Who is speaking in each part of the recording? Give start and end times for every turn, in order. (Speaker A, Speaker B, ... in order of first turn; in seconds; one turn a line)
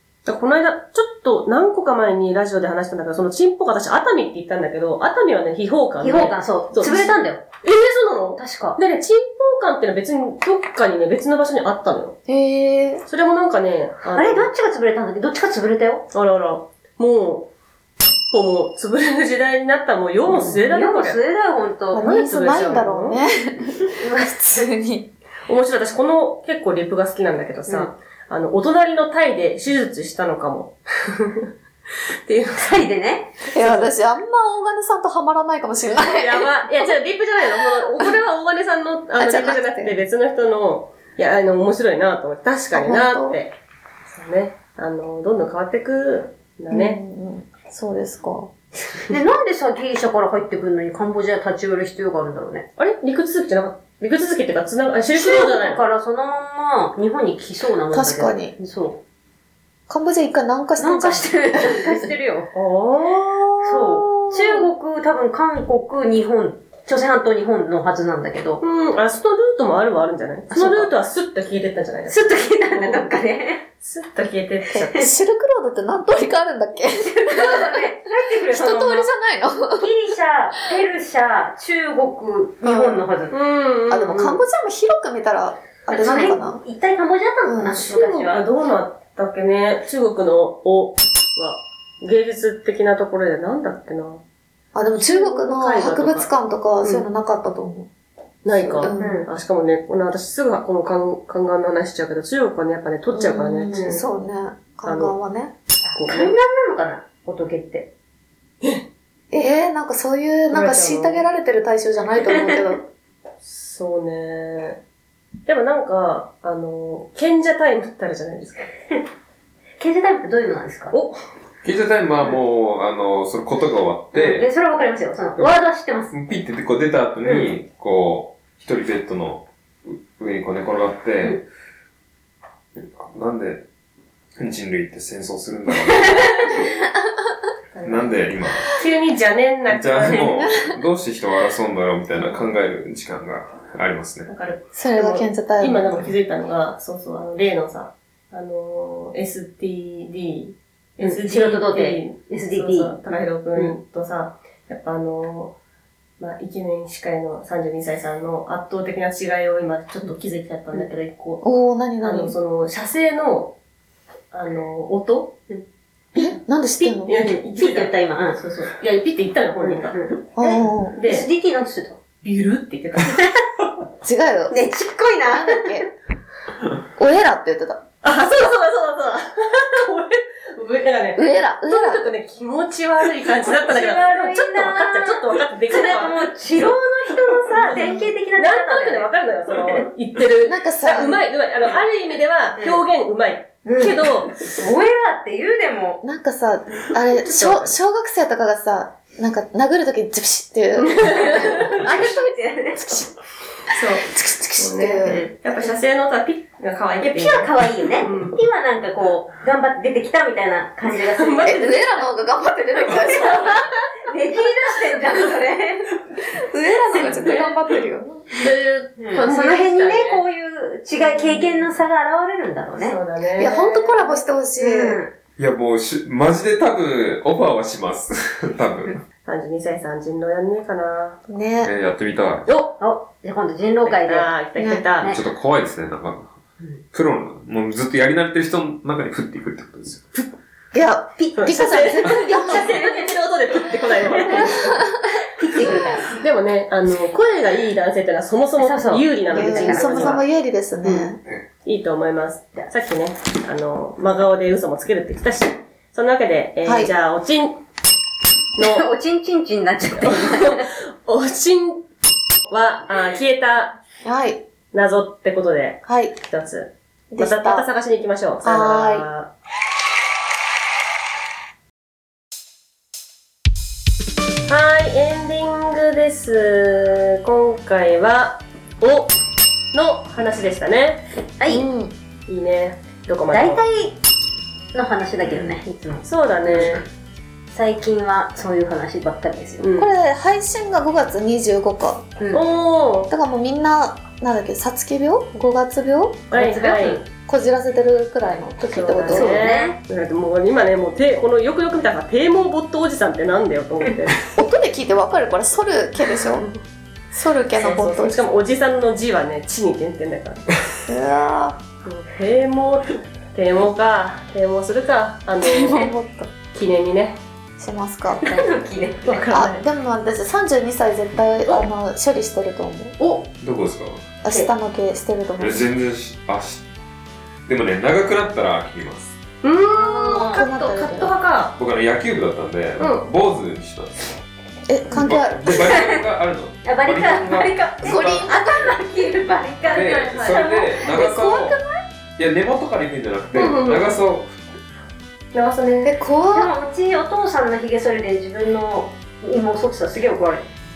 Speaker A: 0.2-12.2
Speaker B: 6.0-7.4
Speaker B: 8.4-8.8
Speaker C: 12.3-13.0
Speaker A: 13.1-14.5
Speaker B: 14.1-16.0
Speaker A: 16.1-17.5
Speaker A: 18.3-21.2
Speaker B: 20.3-22.0
Speaker C: 21.9-25.1
Speaker A: 21.9-23.2
Speaker B: 23.9-24.6
Speaker A: 25.5-31.5
Speaker A: 32.2-32.8
Speaker B: 32.5-33.4
Speaker C: 33.5-36.5
Speaker A: 33.5-33.9
Speaker A: 36.0-43.5
Speaker C: 39.2-40.0
Speaker C: 42.7-43.4
Speaker A: 44.1-47.0
Speaker C: 46.7-48.5
Speaker B: 49.1-52.6
Speaker A: 52.8-55.8
Speaker B: 55.1-59.0
Speaker C: 57.9-58.5
Speaker C: 59.9-62.1
Speaker B: 60.8-62.5
Speaker A: 62.5-64.1
Speaker B: 63.6-68.6
Speaker A: 68.6-73.1
Speaker B: 70.5-70.9
Speaker B: 72.1-73.6
Speaker A: 73.8-75.0
Speaker C: 74.8-79.9
Speaker B: 77.0-79.1
Speaker B: 79.7-83.3
Speaker C: 82.6-83.0
Speaker A: 83.3-84.4
Speaker C: 83.9-86.6
Speaker B: 85.9-88.4
Speaker C: 87.4-87.8
Speaker A: 87.7-94.2
Speaker C: 94.7-97.9
Speaker A: 94.9-96.3
Speaker A: 98.4-104.0
Speaker C: 98.5-99.2
Speaker B: 98.9-99.3
Speaker C: 103.1-105.5
Speaker B: 103.7-104.0
Speaker A: 104.8-105.1
Speaker B: 105.8-107.9
Speaker A: 105.9-106.3
Speaker C: 109.3-112.8
Speaker A: 110.5-111.2
Speaker A: 113.4-114.8
Speaker A: 115.5-118.8
Speaker B: 119.8-120.9
Speaker A: 120.9-121.2
Speaker D: 121.6-124.5
Speaker B: 124.1-126.1
Speaker D: 125.4-131.4
Speaker B: 127.2-127.5
Speaker D: 132.8-133.6
Speaker D: 134.4-136.7
Speaker A: 137.7-140.3
Speaker D: 137.8-138.7
Speaker D: 139.7-144.3
Speaker C: 140.1-140.8
Speaker A: 144.3-155.5
Speaker C: 144.7-146.1
Speaker B: 151.0-153.0
Speaker A: 156.2-161.4
Speaker C: 161.4-162.3
Speaker A: 162.0-163.5
Speaker A: 164.3-165.5
Speaker A: 166.1-171.3
Speaker C: 166.2-167.2
Speaker B: 167.2-168.4
Speaker B: 169.6-170.1
Speaker C: 170.3-171.0
Speaker B: 171.0-172.0
Speaker A: 172.2-173.4
Speaker C: 174.0-174.7
Speaker B: 174.5-175.8
Speaker C: 175.2-175.9
Speaker C: 176.9-177.8
Speaker A: 178.0-186.7
Speaker C: 181.2-182.1
Speaker B: 183.5-189.1
Speaker A: 187.3-194.4
Speaker C: 187.7-188.1
Speaker C: 190.4-191.2
Speaker B: 192.6-192.8
Speaker B: 193.6-196.0
Speaker C: 196.0-203.1
Speaker A: 197.2-197.7
Speaker A: 200.8-202.0
Speaker B: 201.1-202.8
Speaker A: 203.7-208.4
Speaker C: 204.1-205.8
Speaker B: 207.0-211.8
Speaker A: 210.9-211.8
Speaker C: 211.4-213.7
Speaker B: 212.8-216.0
Speaker C: 216.2-218.4
Speaker B: 216.9-217.4
Speaker A: 217.1-217.4
Speaker A: 218.3-220.2
Speaker B: 219.0-223.0
Speaker A: 221.0-221.7
Speaker A: 222.7-224.2
Speaker C: 223.4-225.0
Speaker B: 224.6-225.1
Speaker D: 225.4-229.0
Speaker A: 229.2-231.2
Speaker C: 231.3-231.7
Speaker D: 231.6-232.5
Speaker A: 232.5-232.8
Speaker B: 232.8-234.3
Speaker A: 233.8-235.1
Speaker C: 234.6-234.8
Speaker D: 235.0-236.4
Speaker D: 236.9-240.1
Speaker C: 240.7-242.7
Speaker B: 241.2-246.2
Speaker A: 241.4-244.8
Speaker C: 244.4-244.9
Speaker A: 245.6-250.2
Speaker C: 245.6-246.0
Speaker B: 248.6-250.2
Speaker C: 249.3-251.2
Speaker A: 250.8-251.1
Speaker A: 251.6-257.6
Speaker C: 256.6-256.9
Speaker A: 258.6-258.9
Speaker B: 258.6-260.7
Speaker A: 260.0-261.8
Speaker A: 262.5-263.8
Speaker C: 264.0-264.4
Speaker A: 264.7-269.3
Speaker C: 265.9-266.1
Speaker C: 267.1-267.6
Speaker C: 268.4-269.1
Speaker A: 274.5-279.2
Speaker A: 279.7-281.7
Speaker B: 281.4-281.6
Speaker C: 281.5-281.9
Speaker A: 282.3-283.6
Speaker B: 283.3-284.0
Speaker B: 284.7-286.0
Speaker A: 285.2-286.8
Speaker D: 286.5-286.8
Speaker B: 287.5-289.6
Speaker A: 289.6-289.9
Speaker C: 289.8-292.1
Speaker A: 292.3-293.1
Speaker C: 293.1-296.3
Speaker A: 296.3-297.1
Speaker B: 296.3-297.0
Speaker C: 297.2-299.5
Speaker A: 298.7-304.2
Speaker B: 299.1-299.8
Speaker C: 304.4-306.5
Speaker A: 306.2-306.5
Speaker C: 307.1-308.2
Speaker A: 307.5-310.5
Speaker C: 310.9-311.6
Speaker A: 311.8-315.9
Speaker C: 315.4-316.3
Speaker A: 316.5-317.2
Speaker C: 317.6-318.3
Speaker B: 318.2-319.2
Speaker A: 319.0-319.6
Speaker C: 319.3-322.9
Speaker B: 323.0-323.3
Speaker D: 323.4-324.0
Speaker C: 324.2-325.6
Speaker D: 325.4-326.6
Speaker D: 327.5-329.1
Speaker A: 329.4-331.5
Speaker C: 329.7-331.1
Speaker B: 330.0-330.4
Speaker D: 331.6-333.9
Speaker A: 332.8-333.1
Speaker C: 334.7-335.8
Speaker D: 334.9-338.1
Speaker B: 335.5-336.0
Speaker B: 336.6-340.9
Speaker C: 337.8-338.7
Speaker A: 339.6-340.7
Speaker D: 339.7-341.6
Speaker C: 340.8-341.8
Speaker D: 342.2-344.4
Speaker A: 343.3-344.0
Speaker A: 345.3-345.9
Speaker C: 345.8-346.5
Speaker B: 346.3-350.4